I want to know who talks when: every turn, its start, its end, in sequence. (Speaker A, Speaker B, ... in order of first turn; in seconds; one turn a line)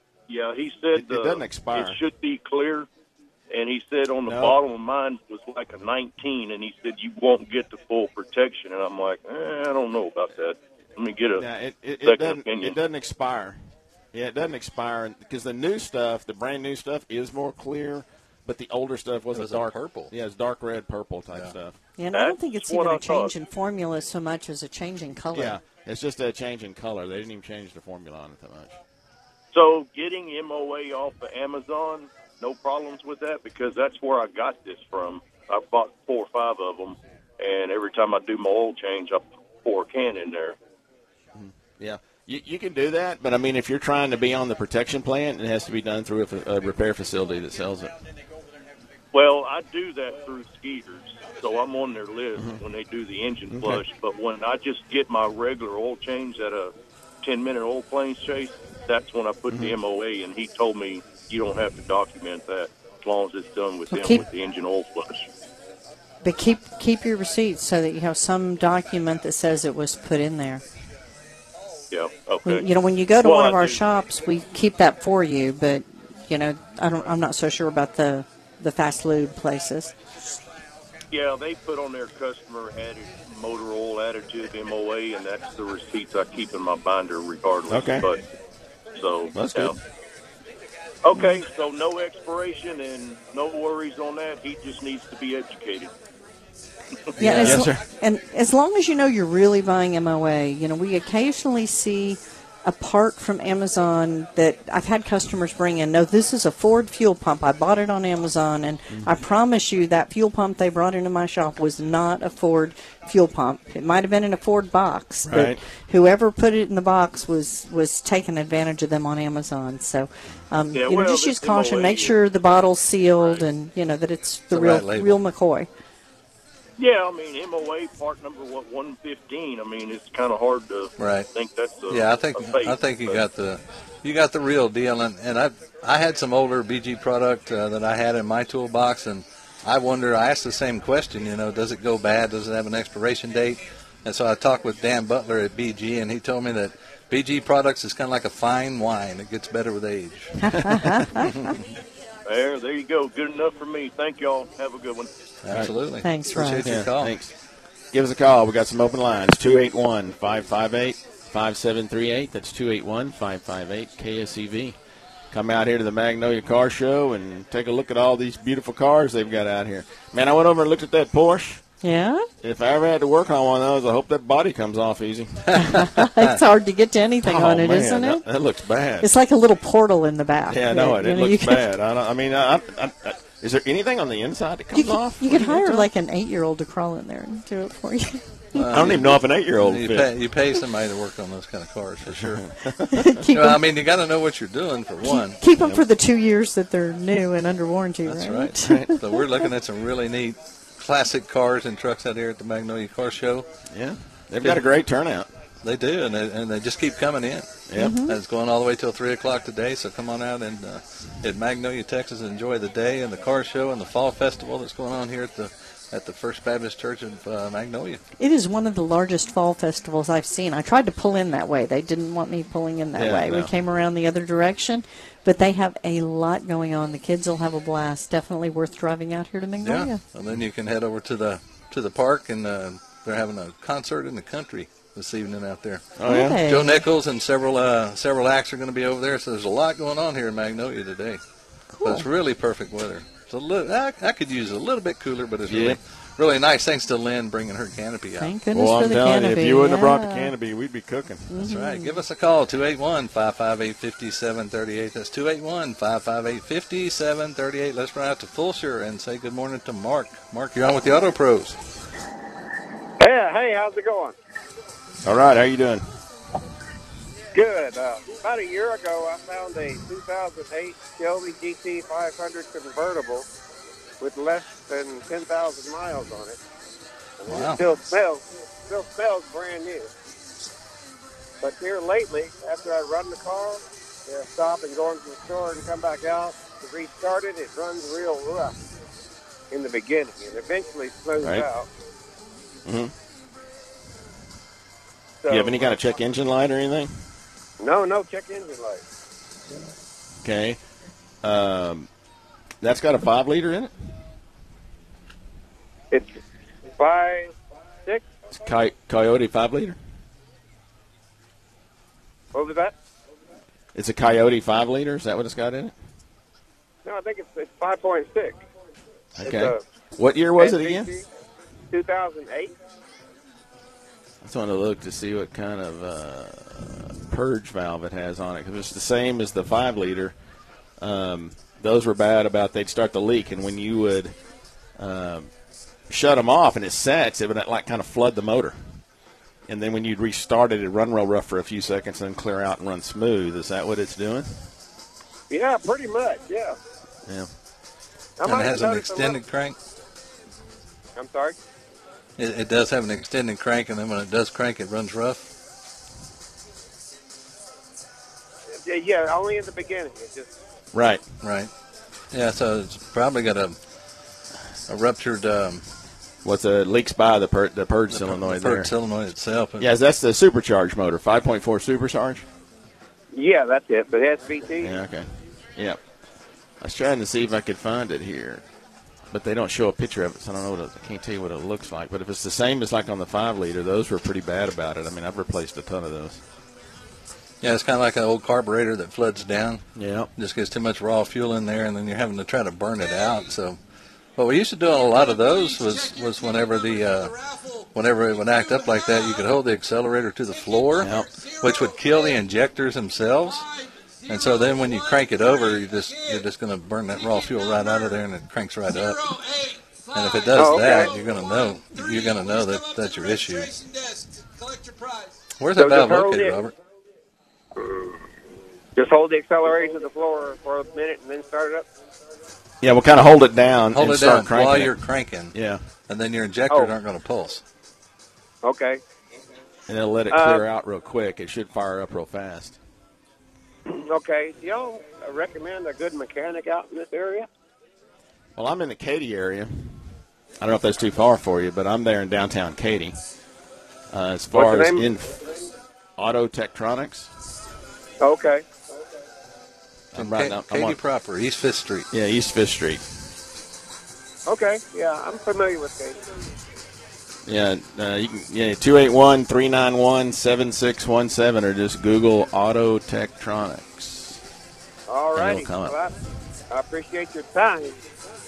Speaker A: 0.3-2.9
Speaker B: 0.9-2.0
Speaker A: 3.5-11.5
Speaker B: 4.2-4.6
Speaker B: 11.4-13.6
Speaker A: 12.0-12.8
Speaker B: 14.1-21.8
Speaker C: 19.3-20.1
Speaker D: 22.0-25.6
Speaker A: 22.1-23.3
Speaker B: 25.3-28.8
Speaker A: 29.5-40.5
Speaker B: 41.3-47.9
Speaker A: 49.1-65.3
Speaker B: 53.5-53.8
Speaker D: 63.9-64.2
Speaker D: 66.2-70.6
Speaker A: 71.9-73.8
Speaker D: 72.4-79.9
Speaker A: 81.1-88.2
Speaker B: 87.7-88.1
Speaker A: 88.9-89.8
Speaker B: 89.3-89.7
Speaker A: 91.0-95.9
Speaker D: 97.2-125.7
Speaker C: 97.2-97.6
Speaker B: 97.3-97.8
Speaker B: 115.3-115.6
Speaker A: 120.7-122.2
Speaker A: 123.2-123.4
Speaker C: 124.5-125.2
Speaker A: 126.8-133.2
Speaker C: 131.0-131.3
Speaker C: 131.9-151.6
Speaker D: 150.4-151.3
Speaker A: 152.2-155.1
Speaker C: 155.4-157.1
Speaker D: 156.0-156.7
Speaker B: 156.6-157.3
Speaker B: 157.9-164.8
Speaker B: 165.3-171.6
Speaker D: 171.8-172.3
Speaker B: 172.4-175.9
Speaker C: 175.5-176.3
Speaker D: 175.6-178.2
Speaker B: 177.2-179.1
Speaker D: 179.0-181.7
Speaker B: 180.5-185.9
Speaker D: 184.7-188.6
Speaker C: 188.5-192.5
Speaker B: 188.7-190.1
Speaker B: 192.0-193.2
Speaker D: 192.9-193.6
Speaker C: 193.3-195.4
Speaker D: 195.0-199.0
Speaker C: 198.1-203.5
Speaker B: 198.6-198.9
Speaker B: 203.7-205.3
Speaker C: 205.6-218.0
Speaker B: 207.7-207.9
Speaker D: 207.8-208.2
Speaker D: 218.2-230.0
Speaker B: 222.9-223.5
Speaker C: 229.6-241.2
Speaker B: 236.0-236.4
Speaker D: 236.1-236.8
Speaker D: 241.7-242.1
Speaker C: 241.8-248.3
Speaker B: 245.5-245.8
Speaker D: 248.2-250.3
Speaker B: 248.5-251.4
Speaker D: 251.3-252.0
Speaker C: 251.4-261.6
Speaker E: 263.0-264.1
Speaker B: 265.0-265.8
Speaker E: 267.3-273.2
Speaker E: 274.0-276.4
Speaker E: 277.2-279.9
Speaker C: 277.3-277.6
Speaker E: 281.4-288.5
Speaker E: 289.5-291.7
Speaker B: 291.2-291.5
Speaker B: 292.6-292.9
Speaker E: 295.2-295.8
Speaker B: 295.3-297.0
Speaker E: 297.6-298.8
Speaker B: 300.2-300.6
Speaker B: 301.2-301.9
Speaker B: 302.6-303.7
Speaker E: 305.9-306.2
Speaker E: 306.7-307.3
Speaker E: 307.9-308.1
Speaker B: 308.4-309.8
Speaker E: 312.3-312.7
Speaker B: 313.7-315.7
Speaker E: 316.8-318.4
Speaker B: 319.1-320.9
Speaker E: 319.2-319.6
Speaker E: 320.4-321.0
Speaker E: 321.7-322.5
Speaker B: 324.2-330.1
Speaker B: 330.8-334.1
Speaker B: 334.8-335.3
Speaker B: 335.9-338.8
Speaker B: 339.5-344.4
Speaker E: 345.3-346.6
Speaker E: 348.2-349.2
Speaker C: 348.2-349.6
Speaker E: 350.9-351.4
Speaker C: 352.2-355.3
Speaker E: 358.6-360.3
Speaker B: 360.7-361.0
Speaker C: 361.2-361.5
Speaker C: 362.1-363.6
Speaker C: 364.7-365.6
Speaker B: 366.2-368.7
Speaker C: 367.9-369.7
Speaker B: 369.6-372.2
Speaker E: 373.1-374.8
Speaker B: 374.6-375.8
Speaker B: 376.6-378.4
Speaker B: 379.1-386.2
Speaker C: 387.4-393.6
Speaker B: 389.8-390.1
Speaker C: 394.2-397.2
Speaker C: 397.7-403.5
Speaker B: 400.8-401.1
Speaker C: 404.1-409.2
Speaker C: 409.9-413.6
Speaker E: 410.3-410.9
Speaker C: 415.4-416.5
Speaker E: 415.6-416.4
Speaker E: 417.6-417.9
Speaker E: 418.8-421.6
Speaker B: 422.6-424.8
Speaker C: 423.7-425.3
Speaker B: 425.3-425.6
Speaker C: 425.9-427.4
Speaker E: 428.4-428.8
Speaker B: 429.7-432.6
Speaker E: 430.1-430.4
Speaker E: 433.7-437.3
Speaker B: 438.4-443.0
Speaker B: 443.9-445.2
Speaker E: 444.3-444.9
Speaker B: 446.0-447.1
Speaker E: 448.0-448.4
Speaker B: 449.9-450.8
Speaker C: 449.9-451.9
Speaker B: 451.9-452.8
Speaker E: 454.3-456.0
Speaker B: 457.3-464.2
Speaker E: 464.9-465.9
Speaker B: 465.1-465.9
Speaker E: 466.5-467.8